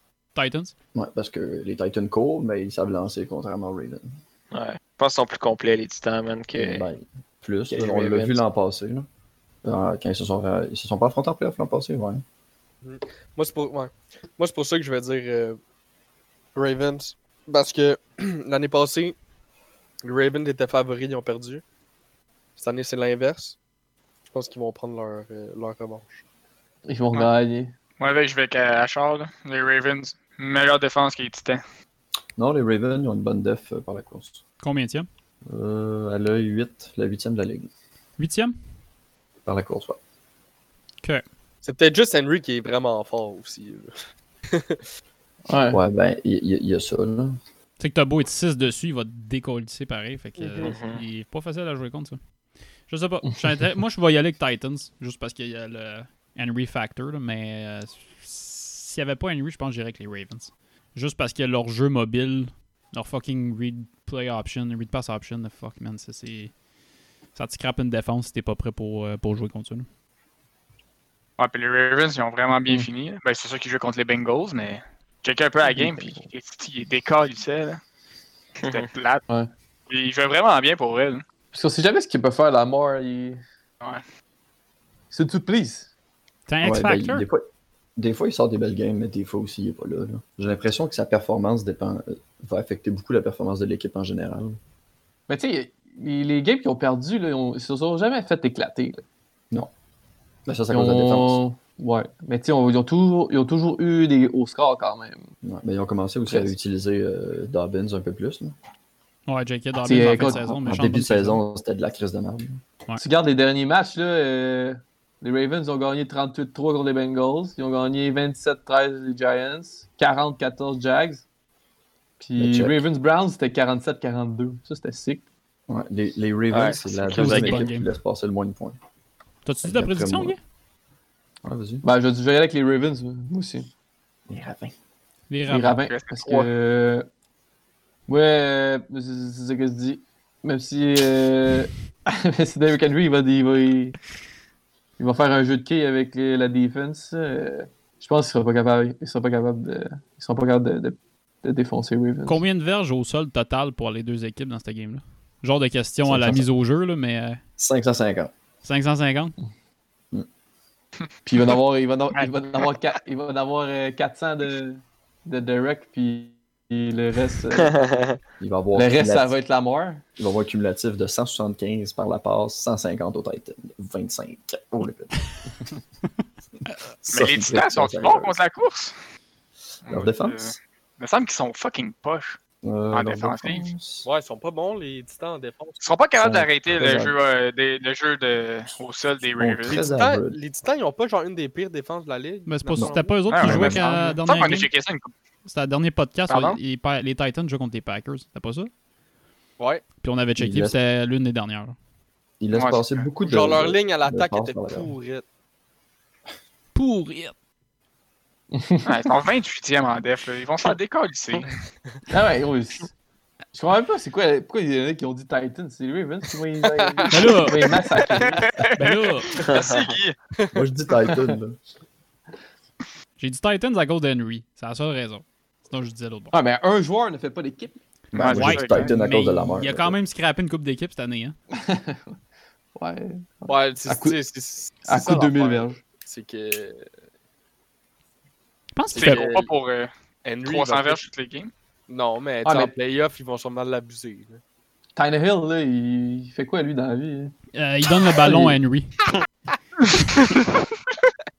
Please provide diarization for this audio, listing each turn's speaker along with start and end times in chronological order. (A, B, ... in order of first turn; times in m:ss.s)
0:00.4-0:00.7 A
0:00.9-0:04.1 B
0:04.5-0:06.9 C
0:06.5-0:09.1 B
0:07.7-0:08.4 C
0:09.6-0:12.2 B
0:12.8-0:15.6 D
0:16.6-0:19.2 D
0:20.0-0:21.6 D
0:22.6-0:23.6 D
0:24.3-0:26.2 D
0:26.9-0:27.7 E
0:28.0-0:31.6 F
0:32.4-0:34.4 B
0:34.6-0:35.1 A
0:35.5-0:37.7 B
0:38.2-0:38.6 A
0:39.4-0:40.0 B
0:41.6-0:43.9 D
0:44.5-0:44.8 D
0:45.5-0:45.8 E
0:45.7-0:47.4 B
0:47.8-0:52.2 A
0:50.4-0:50.8 D
0:50.6-0:51.0 C
0:52.9-1:06.5 A
1:07.4-1:09.9 A
1:11.4-1:17.8 F
1:15.7-1:16.3 E
1:18.6-1:18.9 C
1:18.6-1:19.2 F
1:19.9-1:21.2 F
1:21.5-1:23.4 E
1:25.1-1:25.9 E
1:26.5-1:27.3 A
1:26.6-1:27.4 B
1:28.0-1:34.6 B
1:35.3-1:39.0 E
1:40.5-1:41.4 B
1:40.7-1:45.3 E
1:45.4-1:48.6 B
1:49.3-1:51.4 A
1:49.8-1:50.6 E
1:50.6-1:52.6 B
1:53.0-2:01.2 E
2:02.2-2:05.2 E
2:02.4-2:02.8 B
2:05.7-2:08.8 B
2:06.5-2:07.7 C
2:07.2-2:07.9 A
2:09.4-2:10.4 A
2:09.6-2:10.4 B
2:11.4-2:11.8 B
2:11.8-2:13.7 E
2:14.3-2:14.7 B
2:15.3-2:15.8 A
2:15.5-2:17.1 E
2:15.8-2:16.5 F
2:18.1-2:24.0 E
2:25.0-2:32.4 E
2:32.3-2:37.4 A
2:36.0-2:36.5 B
2:37.6-2:38.3 B
2:38.6-2:39.4 A
2:41.3-2:47.8 E
2:47.7-2:48.2 C
2:48.4-2:49.4 B
2:48.8-2:50.0 E
2:50.2-2:55.1 B
2:57.0-2:58.3 B
2:57.1-2:58.9 F
2:59.9-3:00.6 B
2:59.9-3:02.4 F
3:02.6-3:04.1 B
3:02.9-3:03.7 F
3:04.0-3:05.8 D
3:05.8-3:09.9 F
3:06.2-3:07.1 B
3:09.4-3:10.4 B
3:09.8-3:13.2 D
3:12.5-3:14.7 A
3:12.8-3:13.8 B
3:13.3-3:15.1 F
3:15.4-3:18.7 A
3:16.3-3:16.6 F
3:19.6-3:19.8 D
3:20.0-3:21.8 A
3:20.4-3:20.8 B
3:22.4-3:24.9 B
3:22.5-3:23.1 F
3:23.2-3:25.2 D
3:26.8-3:27.3 A
3:28.5-3:28.9 E
3:28.9-3:31.5 F
3:32.1-3:32.9 E
3:33.5-3:38.5 E
3:36.8-3:37.1 D
3:37.1-3:37.6 A
3:38.2-3:40.2 F
3:38.7-3:39.3 A
3:39.4-3:39.8 D
3:39.5-3:39.8 C
3:40.4-3:41.3 D
3:40.5-3:41.6 B
3:43.2-3:46.3 A
3:46.3-3:47.8 E
3:48.1-3:50.0 B
3:48.2-3:49.0 F
3:48.2-3:51.4 A
3:51.5-3:52.2 E
3:52.8-3:54.2 E
3:53.5-3:56.8 D
3:54.8-3:55.8 E
3:58.8-3:59.3 A
3:59.0-3:59.5 D
3:59.0-3:59.9 F
4:00.2-4:01.1 D
4:00.4-4:01.5 F
4:01.9-4:04.4 D
4:02.4-4:02.7 E
4:05.0-4:07.3 E
4:07.5-4:09.0 A
4:08.2-4:08.6 E
4:10.4-4:10.6 F